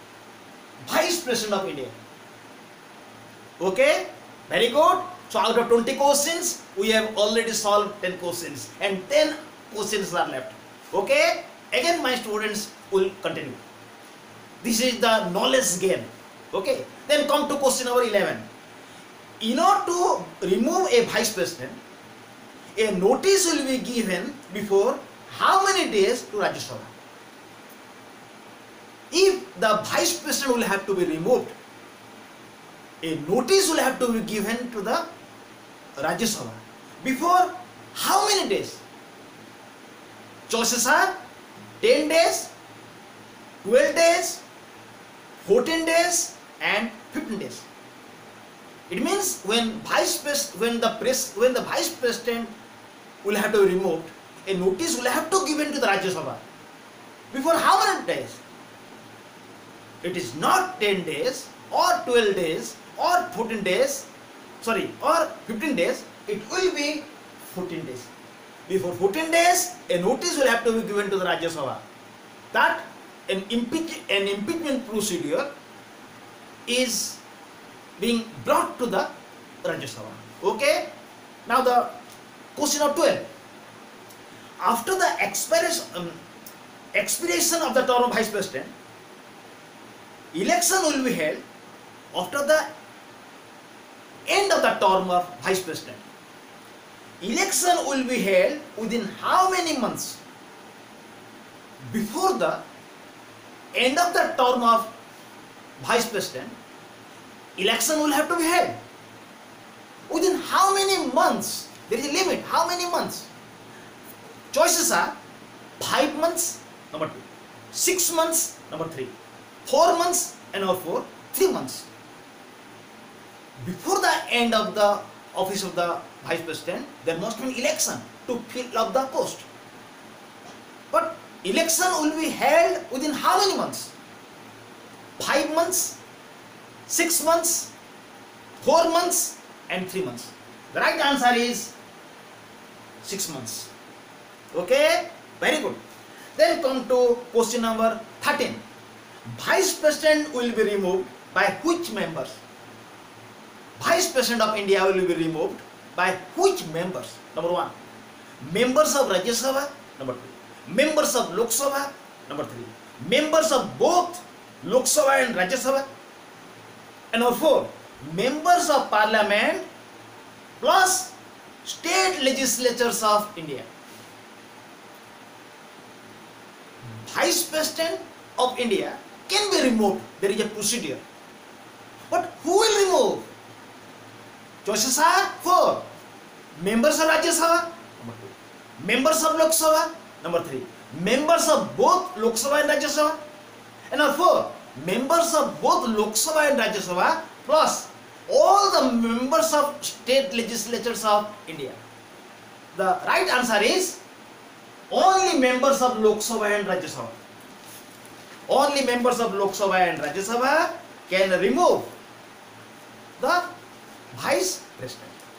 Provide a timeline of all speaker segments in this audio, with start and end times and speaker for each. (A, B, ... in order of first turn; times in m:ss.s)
0:00.8-0:01.9 A
0:03.6-0:13.6 A
0:14.6-0:18.5 A
0:19.4-0:21.8 A
0:22.8-0:26.9 A
0:29.1-0:31.6 A
0:33.0-0:35.0 A
0:36.0-0:38.8 A
0:40.5-0:41.1 A
0:41.8-0:42.5 A
0:43.6-0:44.4 A
0:45.4-0:47.7 A
0:48.9-0:52.5 A
0:53.2-0:56.4 A
0:57.3-0:58.4 A
1:00.0-1:04.1 A
1:04.6-1:08.1 A
1:08.7-1:11.8 A
1:12.5-1:15.5 A
1:16.7-1:17.2 A
1:18.0-1:19.1 A
1:19.6-1:20.9 A
1:21.5-1:22.0 A
1:22.6-1:23.3 A
1:24.6-1:26.2 A
1:27.0-1:28.7 A
1:30.3-1:31.4 A
1:32.1-1:32.7 A
1:34.3-1:36.0 A
1:37.2-1:40.2 A
1:41.9-1:42.6 A
1:43.8-1:44.9 A
1:45.8-1:46.6 A
1:47.6-1:48.8 A
1:50.1-1:53.3 A
1:54.5-1:55.2 A
1:55.8-1:59.1 A
1:59.7-2:01.9 A
2:03.6-2:09.5 A
2:10.9-2:13.9 A
2:15.2-2:16.0 A
2:16.9-2:17.7 A
2:18.6-2:21.7 A
2:23.0-2:23.7 A
2:24.5-2:25.8 A
2:26.4-2:28.6 A
2:29.3-2:32.4 A
2:33.8-2:37.8 A
2:38.4-2:45.9 A
2:47.1-2:49.6 A
2:50.6-2:51.1 A
2:51.6-2:53.7 A
2:57.0-3:01.0 A
3:02.1-3:03.3 A
3:04.6-3:05.9 A
3:06.6-3:13.2 A
3:13.9-3:21.8 A
3:22.7-3:24.0 A
3:24.9-3:27.1 A
3:28.5-3:31.9 A
3:33.2-3:33.4 A
3:34.1-3:35.2 A